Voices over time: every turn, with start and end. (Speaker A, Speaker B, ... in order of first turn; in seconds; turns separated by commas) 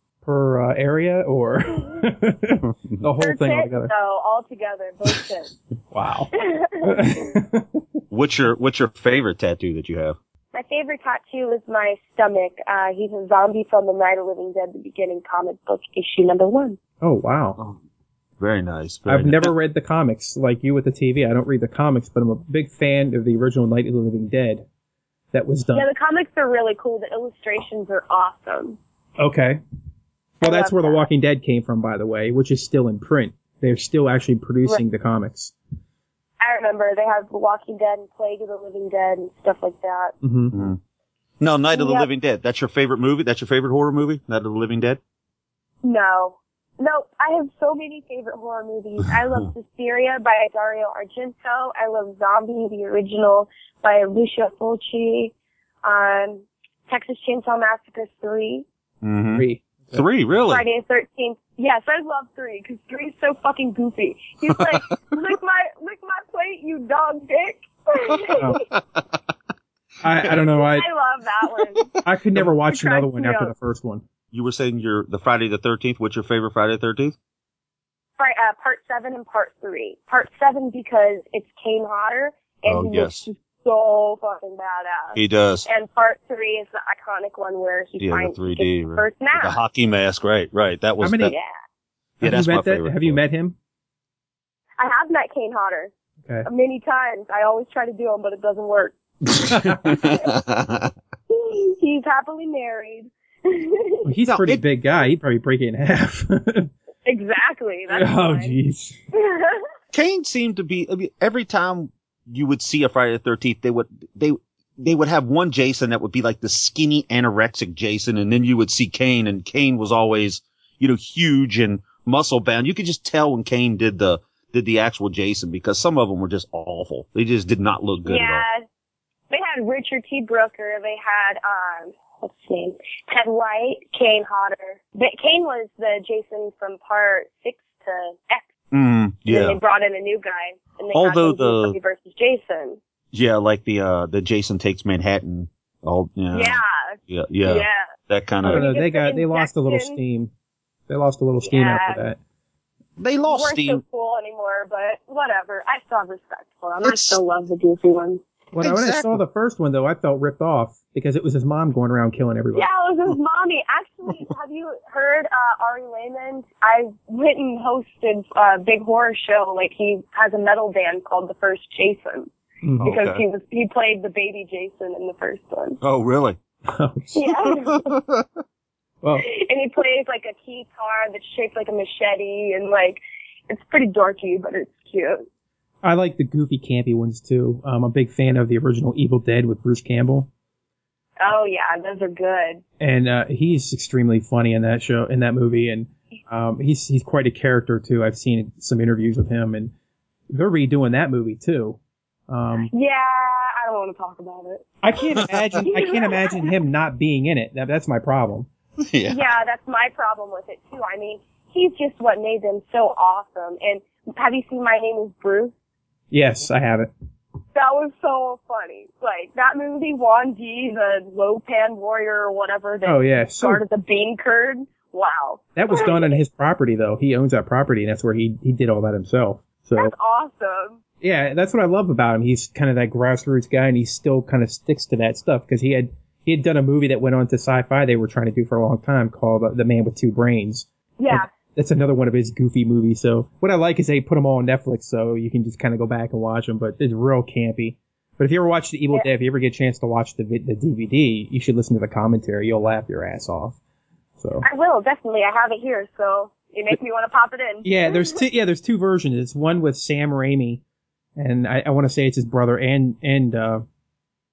Speaker A: 0.2-3.9, Speaker B: 3.2-5.5, Speaker A: 5.9-7.8, Speaker B: 6.3-7.3, Speaker C: 8.1-10.2, Speaker B: 10.5-16.8, Speaker A: 17.0-17.6, Speaker C: 18.4-19.5, Speaker A: 19.1-24.6, Speaker A: 25.3-25.9, Speaker B: 25.7-28.8, Speaker A: 29.2-29.6, Speaker B: 30.4-31.1, Speaker A: 30.4-35.5, Speaker B: 36.4-40.2, Speaker A: 40.2-40.6, Speaker C: 40.5-40.8, Speaker C: 41.4-45.0, Speaker B: 41.7-42.1, Speaker B: 45.8-58.7, Speaker C: 59.0-60.6, Speaker A: 59.4-60.0, Speaker B: 60.5-68.6, Speaker C: 68.7-69.0, Speaker A: 70.0-70.9, Speaker B: 70.5-71.9, Speaker A: 72.0-74.0, Speaker B: 72.7-73.5, Speaker C: 74.3-77.2, Speaker B: 78.2-89.6, Speaker C: 82.7-83.3, Speaker C: 85.2-85.7, Speaker C: 88.0-91.3, Speaker A: 91.0-91.3, Speaker B: 91.3-91.5, Speaker C: 92.2-93.2, Speaker A: 92.2-93.6, Speaker B: 94.8-95.9, Speaker B: 96.4-99.0, Speaker C: 99.3-100.9, Speaker A: 99.5-99.8, Speaker B: 99.9-100.3, Speaker B: 101.3-104.1, Speaker A: 104.0-106.7, Speaker C: 104.3-104.6, Speaker B: 107.1-108.6, Speaker A: 107.9-109.0, Speaker B: 109.1-109.7, Speaker C: 109.9-128.4, Speaker B: 128.0-128.7, Speaker B: 129.3-138.5, Speaker C: 138.7-139.6, Speaker B: 139.3-142.8, Speaker C: 140.9-141.8, Speaker C: 143.1-148.7, Speaker B: 146.3-147.9, Speaker A: 148.4-150.3, Speaker B: 148.4-150.0, Speaker A: 150.9-152.2, Speaker B: 151.4-152.1, Speaker C: 153.0-153.8, Speaker B: 153.3-158.2, Speaker C: 156.8-157.2, Speaker A: 158.5-162.7, Speaker C: 158.6-159.2, Speaker B: 162.6-172.3, Speaker A: 172.6-172.9, Speaker C: 172.8-173.2, Speaker B: 172.8-175.8, Speaker C: 175.8-176.4, Speaker A: 176.7-177.3, Speaker B: 177.1-177.9, Speaker C: 177.9-178.4, Speaker B: 179.2-185.3, Speaker A: 185.8-190.3, Speaker B: 191.2-192.6, Speaker A: 192.8-199.7, Speaker A: 200.3-202.7, Speaker B: 202.7-204.7, Speaker A: 204.8-208.5, Speaker C: 205.2-205.7, Speaker B: 205.7-206.5, Speaker C: 208.8-209.2, Speaker B: 209.1-215.5, Speaker A: 216.1-216.9, Speaker B: 217.6-226.2, Speaker A: 222.9-223.6, Speaker A: 225.6-229.9, Speaker B: 229.8-230.8, Speaker A: 231.0-253.6, Speaker B: 241.0-241.3, Speaker A: 254.2-254.4, Speaker B: 254.4-258.2, Speaker A: 257.6-260.6, Speaker A: 261.2-263.6